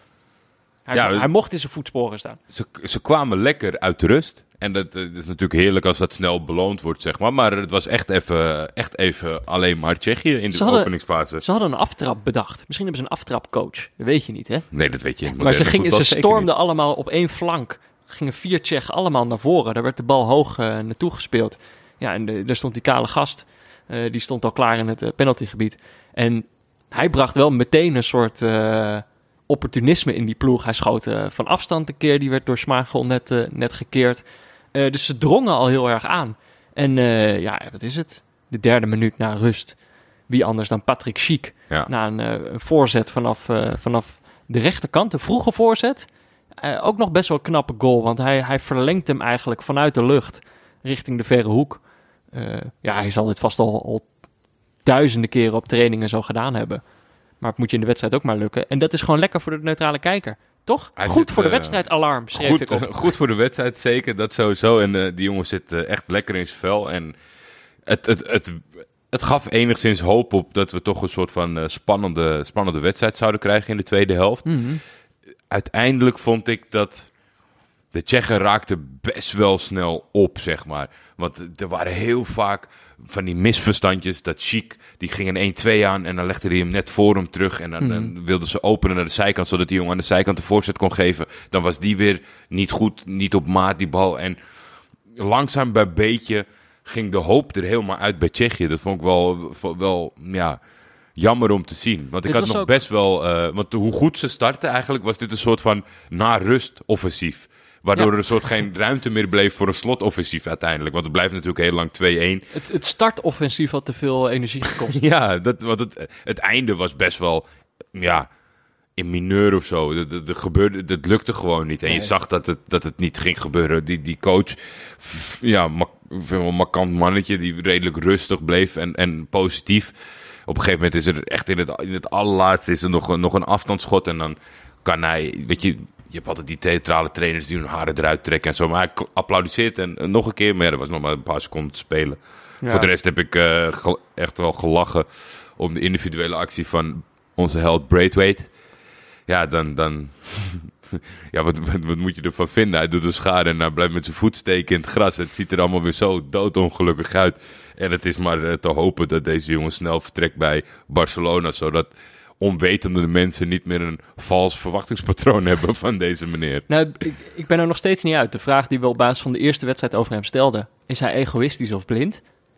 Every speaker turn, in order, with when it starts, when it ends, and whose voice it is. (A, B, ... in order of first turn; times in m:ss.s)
0:00.9-0:02.4 A
0:00.9-0:01.3 B
0:02.5-0:11.4 B
0:10.5-0:14.7 A
0:14.7-0:16.5 B
0:15.3-0:54.1 A
0:54.8-0:56.8 A
0:57.4-1:02.9 A
1:01.0-1:07.2 B
1:07.9-1:14.5 B
1:14.5-1:14.8 A
1:15.5-1:17.1 B
1:17.9-1:34.4 B
1:27.8-1:28.1 A
1:35.1-1:40.6 B
1:41.2-1:52.4 B
1:42.2-1:42.7 A
1:52.5-1:55.0 A
1:54.9-1:58.3 B
1:59.0-2:09.9 B
2:10.5-2:28.5 B
2:22.6-2:22.9 A
2:29.3-2:46.6 B
2:46.7-2:52.2 A